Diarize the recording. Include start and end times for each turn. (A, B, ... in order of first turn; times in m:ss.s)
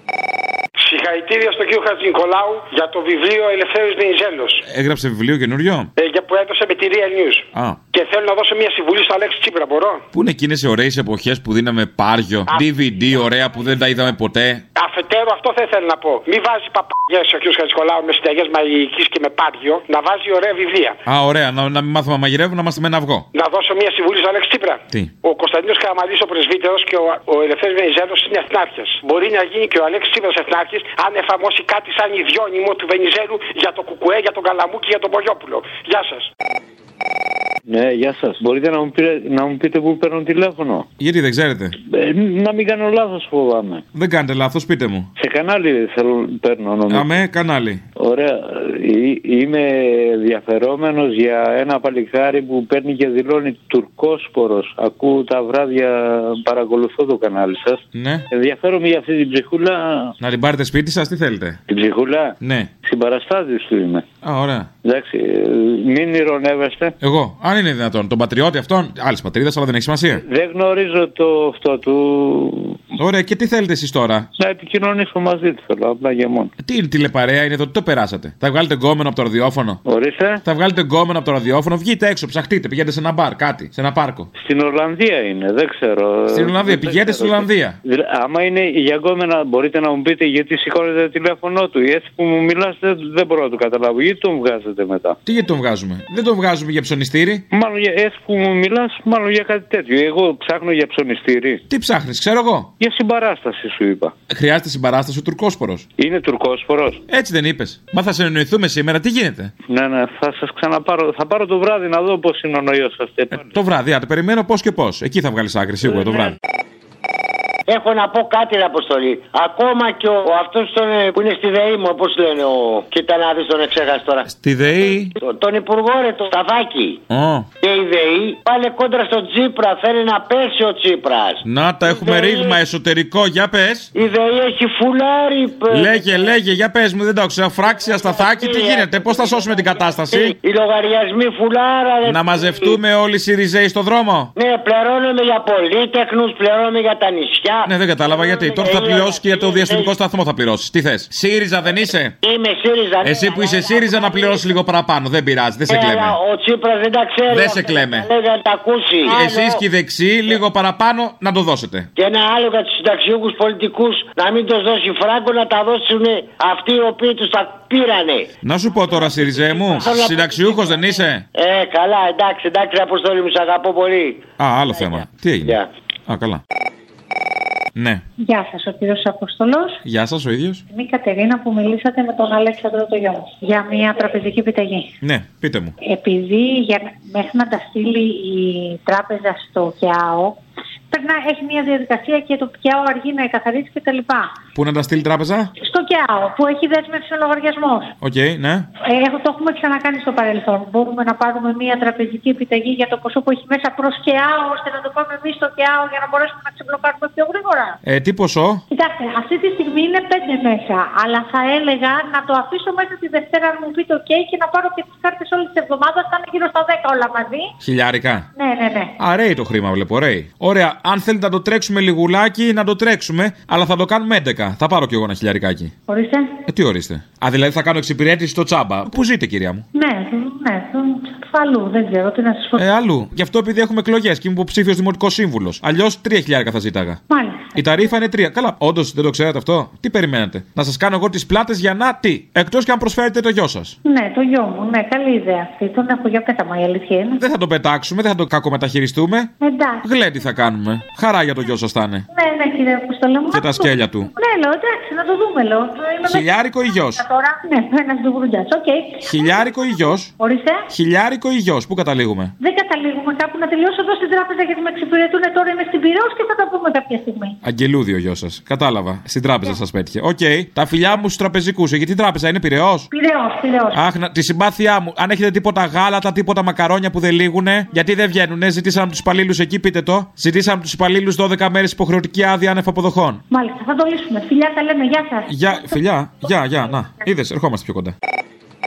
0:00.8-0:04.6 A
0:04.7-0:05.9 B
0:06.0-0:10.0 A
0:10.1-0:14.6 B
0:14.8-0:21.0 A
0:21.1-0:23.3 B
0:23.3-0:36.3 A
0:37.7-0:40.9 C
0:41.0-0:41.8 B
0:41.8-0:43.8 C
0:43.9-0:45.1 B
0:45.2-0:47.2 C
0:46.9-0:47.8 B
0:48.0-1:00.2 C
0:58.0-0:58.2 B
1:00.2-1:01.6 B
1:01.7-1:04.1 C
1:02.4-1:02.7 B
1:04.2-1:04.7 B
1:04.8-1:06.9 C
1:07.0-1:10.2 B
1:10.2-1:12.8 C
1:13.0-1:14.3 B
1:14.4-1:16.5 C
1:16.6-1:19.8 B
1:19.8-1:20.4 C
1:20.4-1:24.3 B
1:24.4-1:35.2 C
1:26.3-1:27.8 B
1:35.3-1:37.4 B
1:37.5-1:41.6 C
1:41.7-1:42.7 B
1:42.8-1:44.1 C
1:44.3-1:45.9 B
1:46.0-1:47.0 C
1:47.1-1:49.5 B
1:49.7-1:53.5 C
1:53.4-1:56.3 B
1:57.7-2:04.3 D
2:04.3-2:05.1 B
2:05.2-2:07.0 D
2:07.1-2:07.5 B
2:07.6-2:12.6 D
2:11.4-2:13.9 B
2:14.0-2:16.4 D
2:15.7-2:20.3 B
2:17.7-2:22.8 D
2:22.0-2:24.3 B
2:24.4-2:29.9 D
2:27.7-2:32.1 B
2:32.2-2:34.6 D
2:33.0-2:36.2 B
2:35.7-2:39.6 D
2:37.3-2:38.1 B
2:39.1-2:41.9 B
2:42.0-2:48.3 D
2:48.4-2:51.2 B
2:48.9-2:54.2 D
2:54.4-2:56.4 B
2:57.8-2:58.0 B
2:58.2-2:59.8 E
2:59.8-3:00.6 B
3:00.7-3:04.9 E
3:05.0-3:05.8 B
3:05.8-3:10.4 E
3:10.9-3:14.4 E
3:14.6-3:15.5 B
3:15.6-3:17.9 E
3:18.0-3:18.7 B
3:18.8-3:27.8 E
3:27.8-3:28.6 B
3:28.7-3:37.5 E
3:37.6-3:38.3 B
3:38.4-3:39.0 E
3:39.0-3:45.7 B
3:45.9-3:46.4 E
3:46.5-3:49.6 B
3:49.7-3:52.6 E
3:52.6-3:57.0 B
3:57.1-3:57.6 E
3:57.6-4:03.8 B
4:03.8-4:07.2 E
4:07.2-4:09.3 B
4:09.4-4:09.8 E
4:09.8-4:12.1 B
4:12.1-4:19.6 E
4:13.3-4:14.1 B
4:16.0-4:17.0 B
4:19.0-4:20.1 B
4:20.2-4:20.6 E
4:20.7-4:22.3 B
4:22.4-4:27.4 E
4:27.4-4:32.9 B
4:32.9-4:33.8 E
4:33.7-4:43.2 B
4:43.3-4:45.8 E
4:45.3-4:47.9 B